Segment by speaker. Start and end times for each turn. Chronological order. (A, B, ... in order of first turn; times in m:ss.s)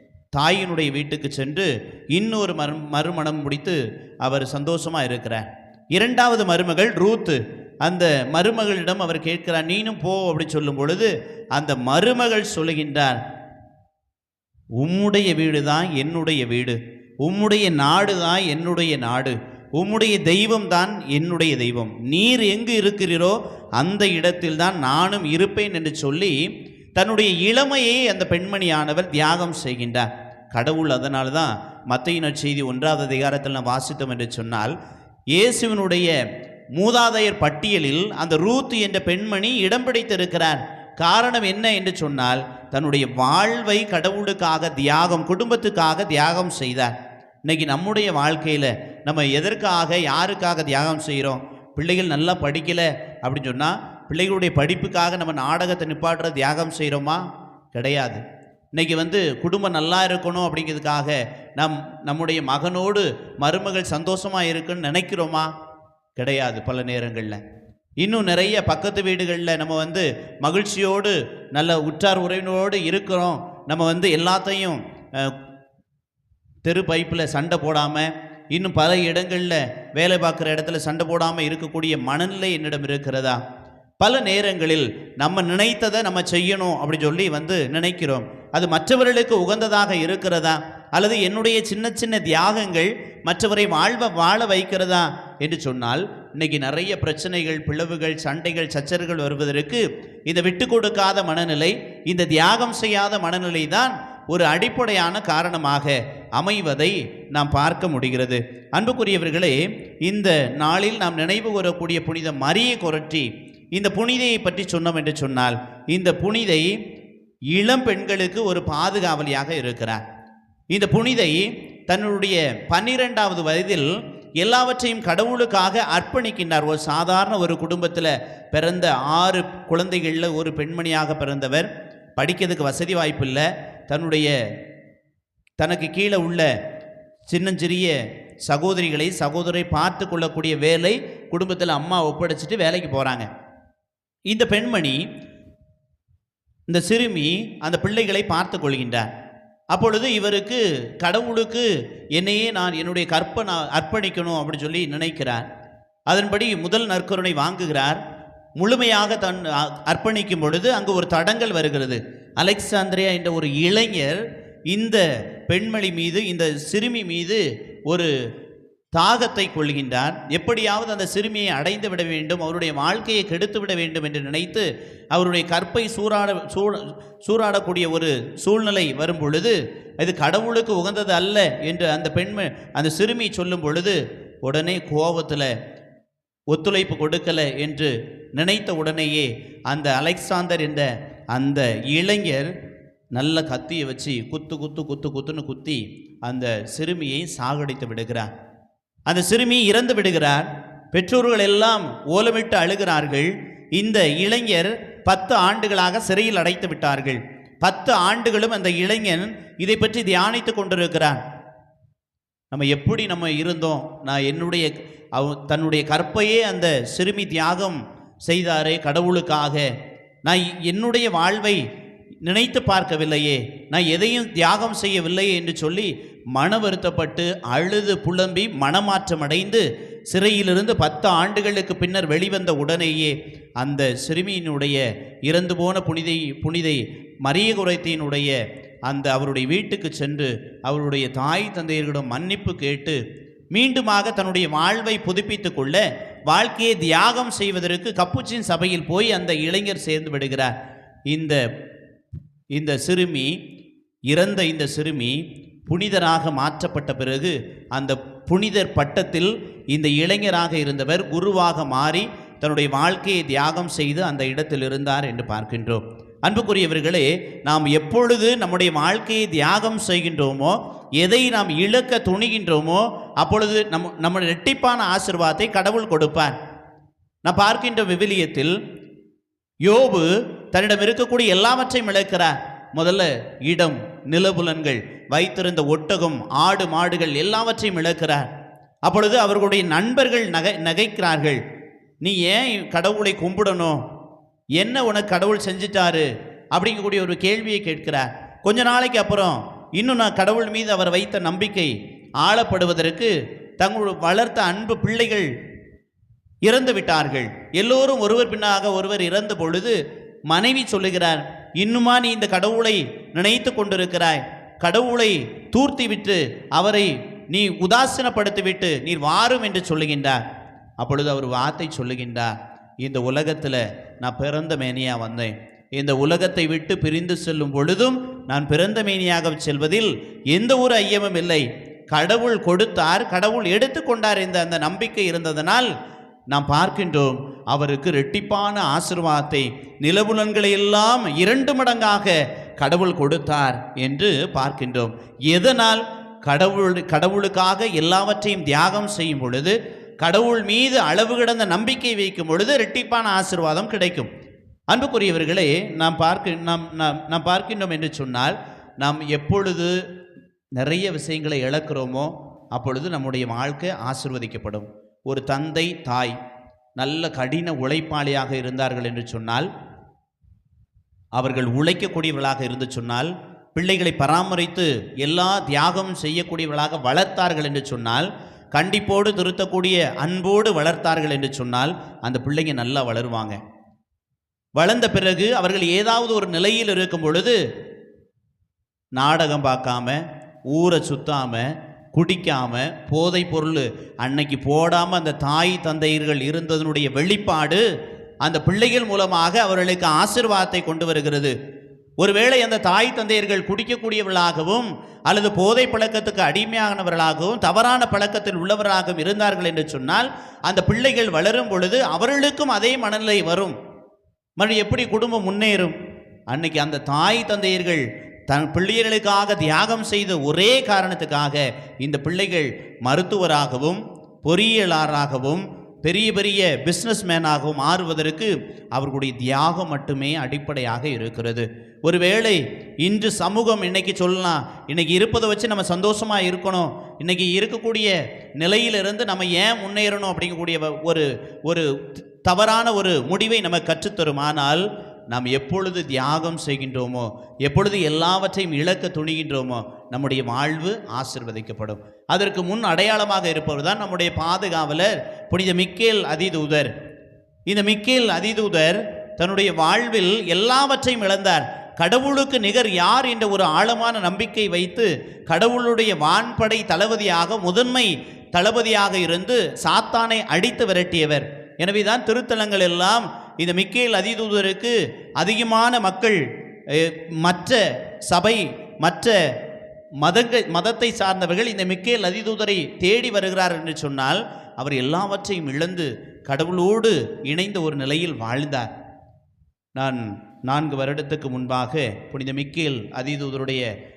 0:00.4-0:13.2 A
0:14.8-0:34.8 A
0:35.3-0:36.1 A
0:36.8-0:47.0 A
0:47.5-0:58.2 A
0:58.7-1:05.5 A
1:06.2-1:07.4 A
1:08.0-1:15.4 A
1:16.7-1:23.4 A
1:24.0-1:56.8 A
1:57.5-2:00.0 A
2:00.7-2:14.3 A
2:15.6-2:16.5 A
2:17.3-2:23.3 A
2:24.3-2:25.0 A
2:26.7-2:29.1 A
2:29.7-2:35.5 A
2:36.1-2:38.0 A
2:38.6-2:48.1 A
2:49.0-3:05.5 A
3:06.5-3:12.5 A
3:13.2-3:18.3 A
3:19.1-3:31.2 A
3:32.5-3:39.7 A
3:40.2-3:41.6 A
3:42.2-4:03.0 A
4:03.5-4:10.5 A
4:11.1-4:11.4 A
4:12.5-4:13.3 A
4:14.1-4:36.4 A
4:37.2-4:38.6 A
4:39.6-4:48.3 A
4:48.8-4:51.4 A
4:52.0-4:53.8 A
4:54.6-5:05.3 A
5:06.4-5:09.8 A
5:10.3-5:20.2 A
5:20.8-5:35.7 A
5:36.3-5:54.1 A
5:54.7-5:59.8 A
6:00.6-6:06.2 A
6:06.8-6:09.5 A
6:11.2-6:23.4 A
6:24.6-6:27.4 A
6:29.0-6:37.6 A
6:38.2-6:41.4 A
6:42.0-6:53.6 A
6:54.4-6:55.8 A
6:56.3-7:36.7 A
7:37.5-7:59.2 A
8:00.0-8:08.7 A
8:09.8-8:13.7 A